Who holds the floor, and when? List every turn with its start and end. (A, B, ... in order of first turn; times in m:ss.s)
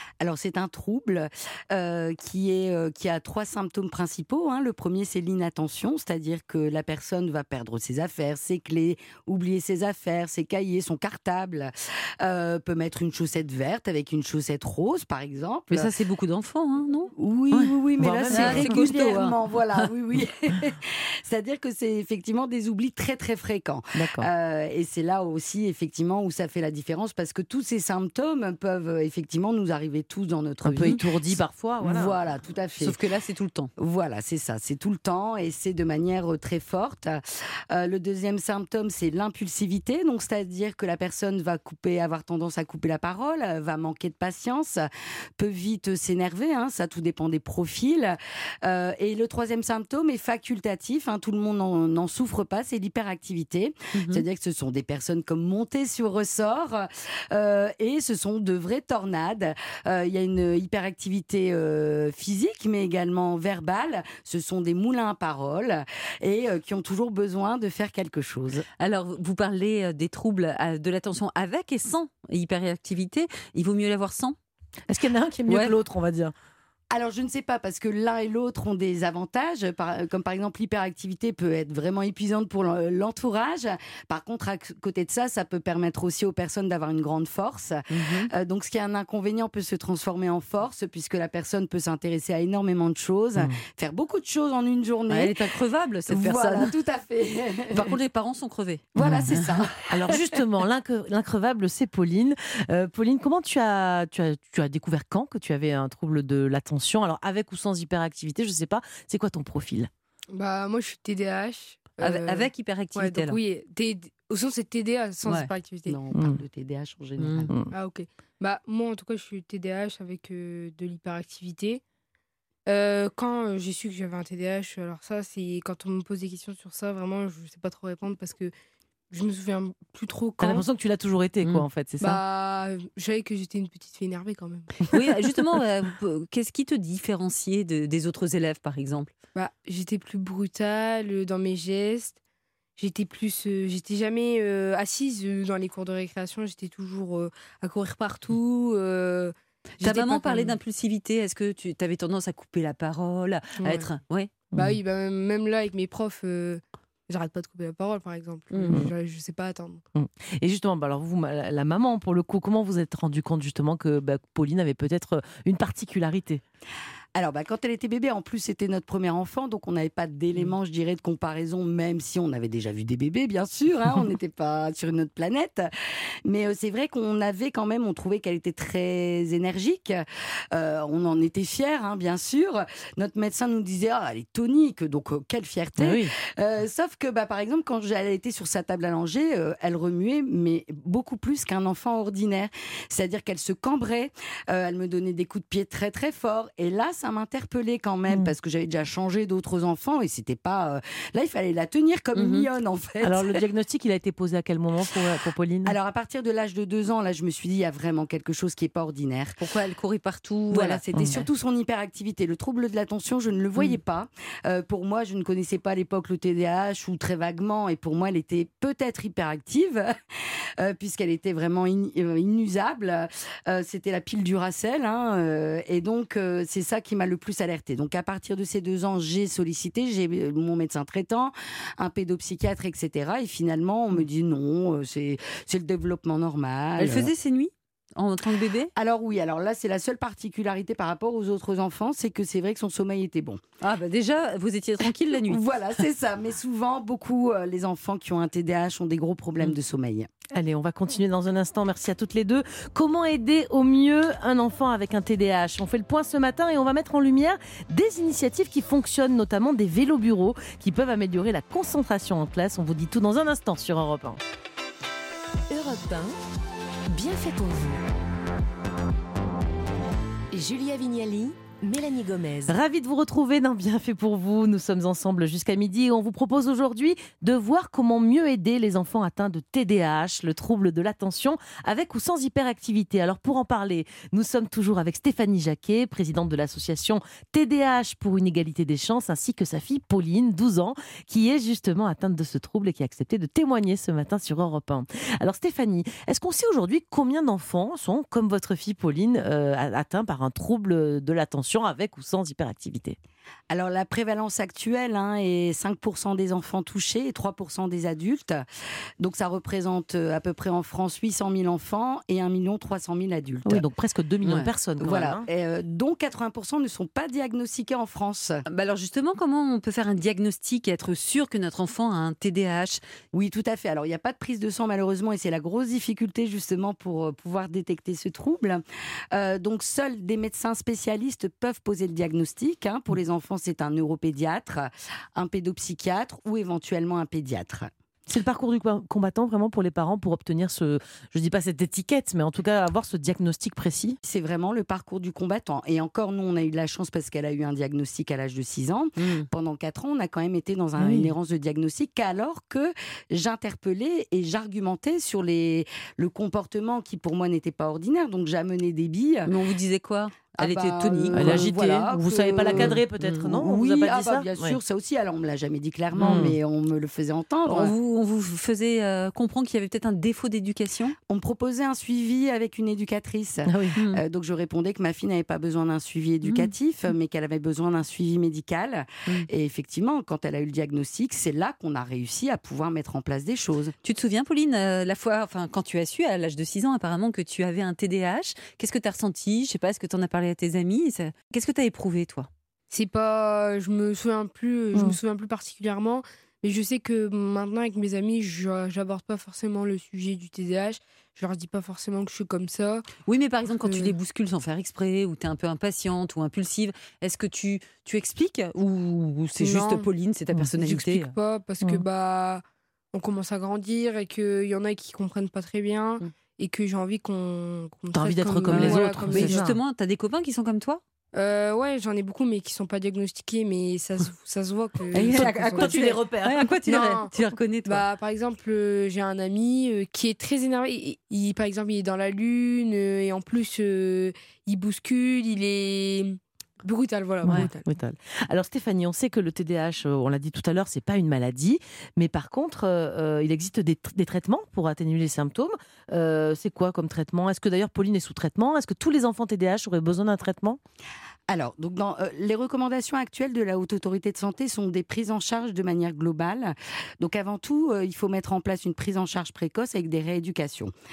0:00.2-0:15.9 A
0:15.7-0:17.7 B
0:17.1-0:33.0 A
0:18.0-0:18.8 C
0:18.3-0:19.9 B
0:23.9-0:24.3 C
0:30.6-0:31.0 B
0:30.7-0:32.2 C
0:32.8-0:33.7 B
0:33.8-1:08.6 A
0:53.9-0:54.2 B
1:08.8-1:14.4 B
1:14.9-1:16.3 C
1:15.5-1:15.8 B
1:16.9-1:35.4 A
1:27.9-1:28.3 B
1:35.1-1:36.7 B
1:36.1-1:38.0 A
1:37.7-1:39.6 B
1:39.0-1:40.4 A
1:39.9-1:49.9 C
1:50.3-1:56.0 D
1:52.0-1:53.4 B
1:55.2-1:55.5 B
1:55.8-1:57.5 A
1:57.2-1:57.5 B
1:57.7-2:01.8 D
2:02.6-2:08.5 D
2:09.1-2:10.7 D
2:10.4-2:12.2 C
2:12.0-2:14.9 D
2:14.8-2:19.1 B
2:19.3-2:22.2 D
2:22.8-2:30.6 D
2:29.8-2:34.3 B
2:33.6-2:33.9 D
2:34.5-2:34.8 C
2:34.6-2:39.8 D
2:38.5-2:38.9 B
2:39.9-2:46.4 C
2:47.1-2:55.7 A
2:56.2-3:23.4 A
3:05.8-3:06.1 C
3:22.1-3:22.5 B
3:23.0-3:25.7 C
3:25.6-3:29.4 A
3:29.4-3:31.2 B
3:30.5-3:39.9 A
3:30.9-3:31.2 C
3:40.6-3:57.1 A
3:56.8-3:58.7 B
3:58.8-4:03.4 A
4:03.6-4:05.4 B
4:05.3-4:10.1 A
4:10.3-4:24.2 C
4:25.5-4:26.1 E
4:26.9-4:27.8 E
4:30.3-4:32.6 E
4:32.5-5:03.0 C
5:03.5-5:08.4 A
5:09.0-5:13.6 A
5:13.4-5:15.2 C
5:14.2-5:14.5 B
5:14.8-5:18.4 A
5:18.5-5:22.8 B
5:23.1-5:37.7 A
5:38.1-5:44.0 C
5:44.0-5:59.3 A
5:49.0-5:49.3 B
5:50.8-5:51.1 C
5:59.2-6:01.5 B
6:00.4-6:07.7 A
6:01.1-6:04.6 C
6:02.5-6:03.2 B
6:05.9-6:06.3 B
6:06.0-6:06.3 C
6:07.4-6:11.0 B
6:11.1-6:23.7 A
6:13.5-6:13.7 C
6:13.8-6:14.0 B
6:16.2-6:16.5 B
6:23.8-6:32.3 B
6:32.7-6:42.9 D
6:43.0-6:51.1 B
6:43.5-6:43.9 D
6:49.4-6:49.9 D
6:50.6-6:52.4 D
6:52.9-6:59.5 D
6:57.9-6:59.6 C
6:58.5-7:00.8 B
7:01.1-7:05.9 D
7:04.9-7:07.9 B
7:05.1-7:06.8 C
7:06.6-7:07.1 D
7:07.6-7:17.6 D
7:17.2-7:30.6 C
7:31.3-7:40.7 A